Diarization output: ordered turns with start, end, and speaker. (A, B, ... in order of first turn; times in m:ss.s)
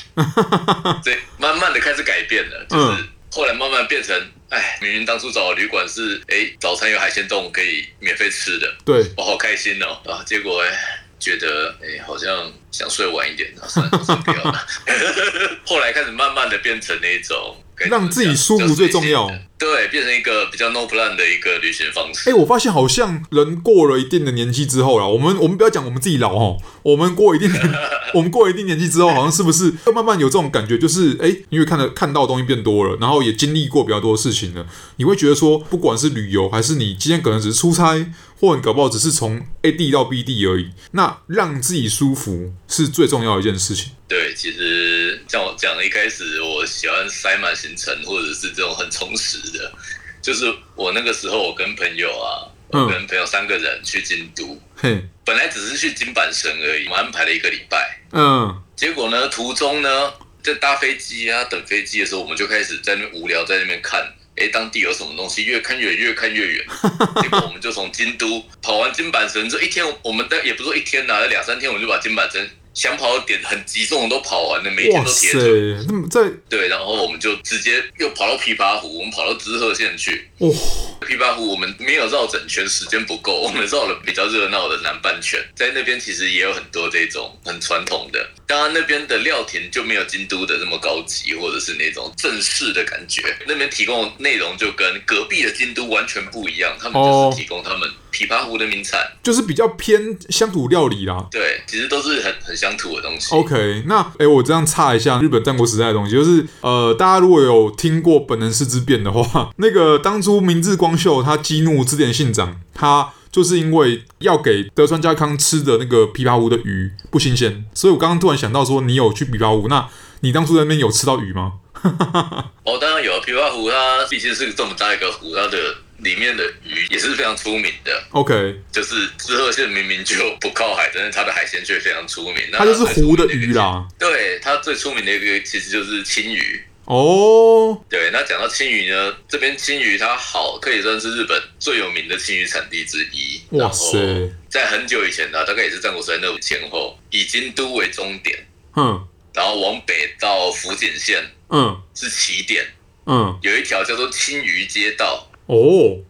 0:00.2-0:01.0 A
0:01.0-0:22.4 B
0:02.7-0:03.0 A
0:08.8-0:09.1 A
0:13.8-0:14.5 A
0:17.8-0:19.4 A
0:22.2-0:43.9 A
0:27.5-0:28.1 B
0:44.1-0:54.6 B
0:52.7-0:53.0 A
0:54.8-0:55.1 A
0:55.2-0:58.0 B
0:58.1-0:58.6 A
0:58.8-1:15.6 B
1:06.7-1:07.4 A
1:14.8-1:16.4 A
1:16.5-1:20.3 B
1:20.4-1:21.0 A
1:21.0-1:39.1 B
1:36.9-1:37.4 A
1:39.2-1:41.3 A
1:41.3-1:43.5 B
1:43.3-2:02.5 A
2:02.6-2:08.0 B
2:08.1-2:08.6 A
2:08.7-2:16.6 B
2:12.6-2:13.9 A
2:16.9-2:17.8 A
2:17.9-2:28.4 B
2:23.5-2:24.3 A
2:28.7-2:29.0 A
2:29.3-2:31.3 B
2:31.5-2:31.8 A
2:31.9-2:32.7 B
2:33.1-2:33.4 A
2:33.4-2:35.3 B
2:35.5-2:36.0 A